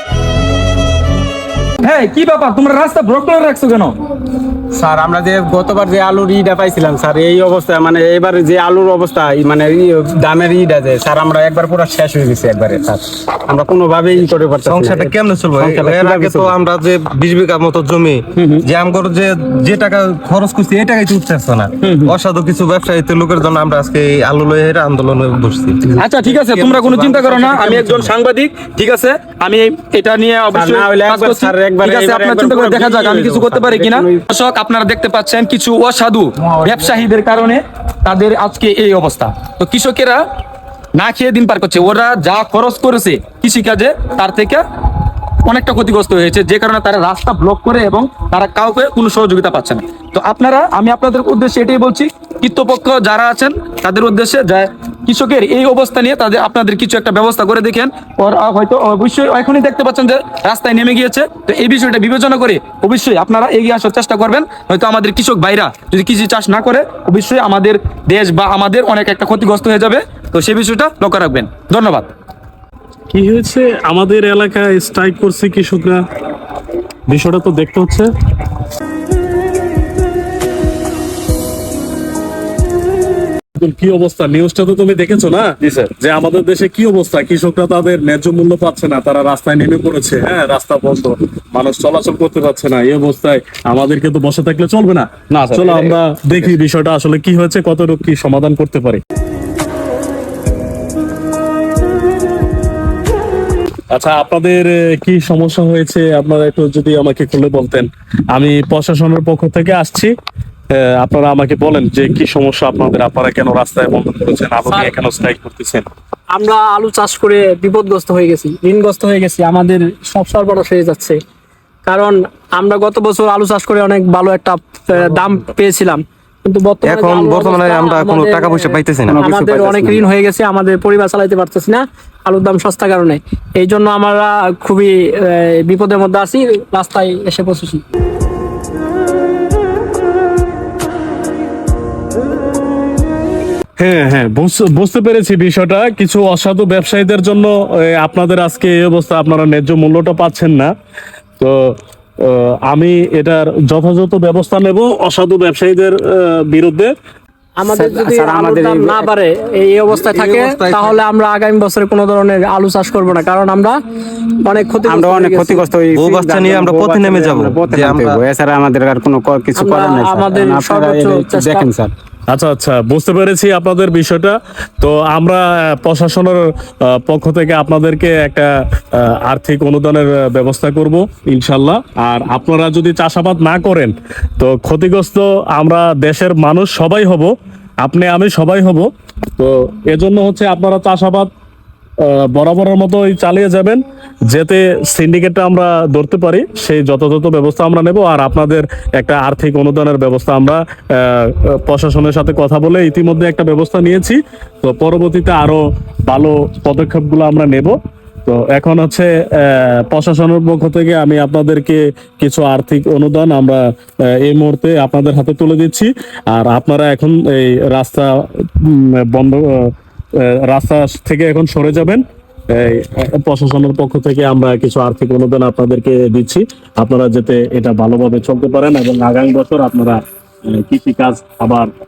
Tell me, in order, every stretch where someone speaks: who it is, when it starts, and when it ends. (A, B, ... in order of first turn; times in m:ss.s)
0:01.8-0:04.0 A
0:04.7-0:16.6 B
0:14.6-0:28.1 C
0:18.4-0:18.6 A
0:21.8-0:22.1 A
0:26.0-0:40.2 A
0:30.5-0:34.2 B
0:36.4-0:37.1 B
0:41.0-0:44.6 A
0:45.5-1:12.1 A
1:13.1-1:16.0 D
1:17.1-1:18.1 D
1:23.6-1:39.0 D
1:35.4-1:36.0 A
1:43.9-1:50.1 D
1:50.8-1:55.9 D
1:54.7-1:54.9 E
1:56.3-2:01.2 E
2:01.8-2:17.8 E
2:05.0-2:05.3 B
2:06.8-2:09.2 C
2:09.1-2:10.1 B
2:23.8-2:30.7 D
2:32.3-2:36.9 D
2:37.6-2:43.8 E
2:37.7-2:39.1 B
2:40.0-2:41.0 C
2:44.4-2:45.6 E
2:44.8-2:51.9 B
2:45.9-2:48.2 C
2:49.6-2:51.7 E
2:52.3-2:56.4 D
2:56.9-2:58.5 D
2:59.0-3:07.3 D
3:07.8-3:08.9 D
3:09.4-3:11.3 D
3:12.0-3:13.8 D
3:14.3-3:27.8 D
3:28.3-3:33.6 D
3:34.2-3:38.1 D
3:38.6-3:50.0 D
3:50.5-3:51.7 D